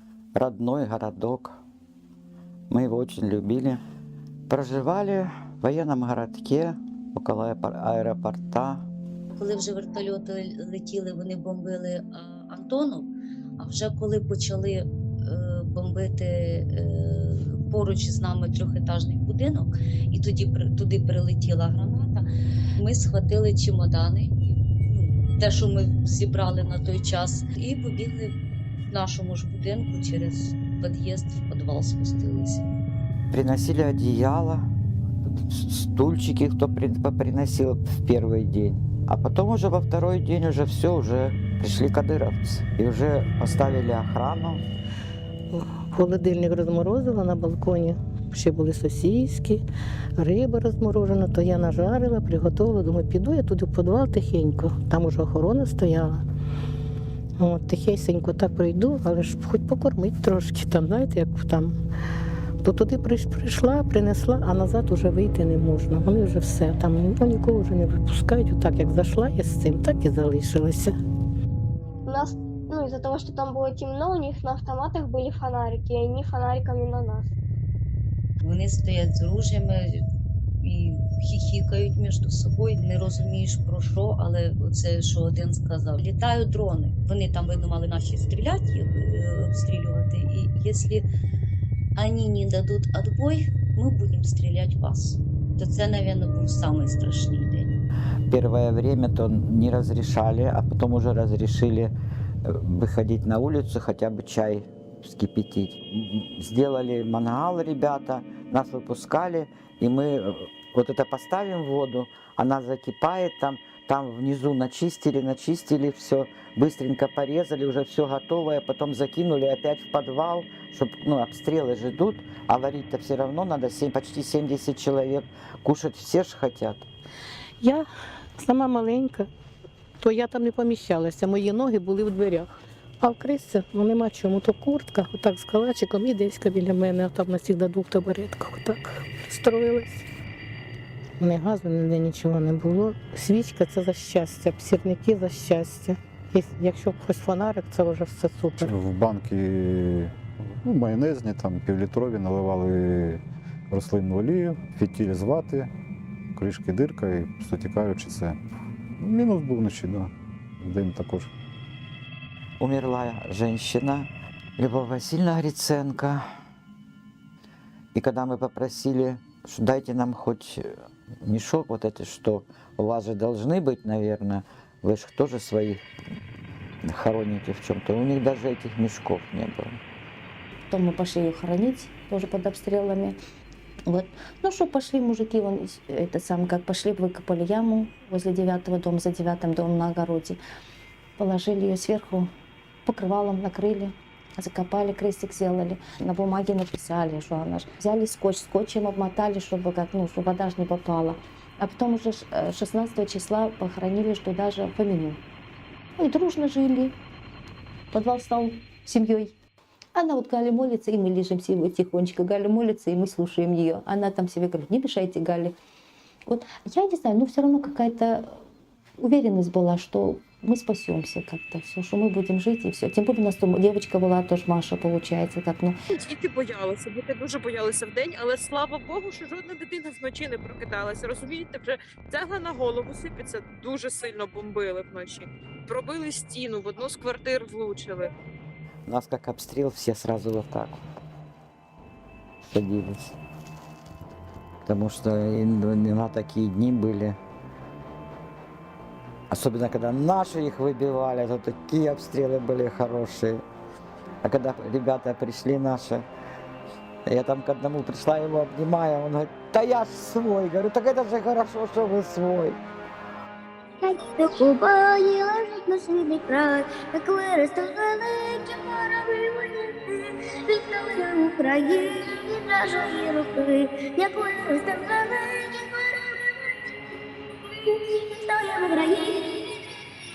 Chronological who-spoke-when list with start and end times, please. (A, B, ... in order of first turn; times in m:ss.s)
0:00.4-0:01.6 A
0:02.7-0:03.8 A
0:04.5-0:08.9 A
0:09.3-0:22.2 B
0:22.8-0:28.3 B
0:28.9-0:32.7 B
0:33.3-0:34.7 A
0:35.2-0:44.6 A
0:45.6-0:49.6 C
0:50.2-0:56.2 C
0:57.4-1:01.8 C
1:02.6-1:11.0 C
1:12.1-1:17.3 D
1:18.4-1:19.8 B
1:20.6-1:31.1 B
1:32.0-1:37.7 B
1:38.3-1:41.9 A
1:42.4-2:06.9 A
2:08.4-2:09.3 C
2:10.0-2:20.0 C
2:21.2-2:28.8 C
2:28.6-2:35.7 E
2:36.4-2:38.4 E
2:39.0-2:41.3 E
2:42.6-2:46.2 A
2:48.0-2:55.8 A
2:56.8-2:59.8 A
3:00.7-3:03.2 F
3:03.9-3:10.4 F
3:11.2-3:12.3 F
3:12.9-3:25.2 F
3:26.0-3:26.9 F
3:27.9-3:29.3 F
3:30.0-3:35.5 F
3:36.3-3:38.4 F
3:39.0-3:45.7 F
3:46.0-3:58.1 G
3:58.9-4:00.8 A
4:02.4-4:03.2 A
4:04.6-4:07.2 A
4:09.3-4:13.4 A
4:14.2-4:16.1 A
4:17.1-4:22.6 A
4:23.8-4:36.3 H
4:37.6-4:39.6 H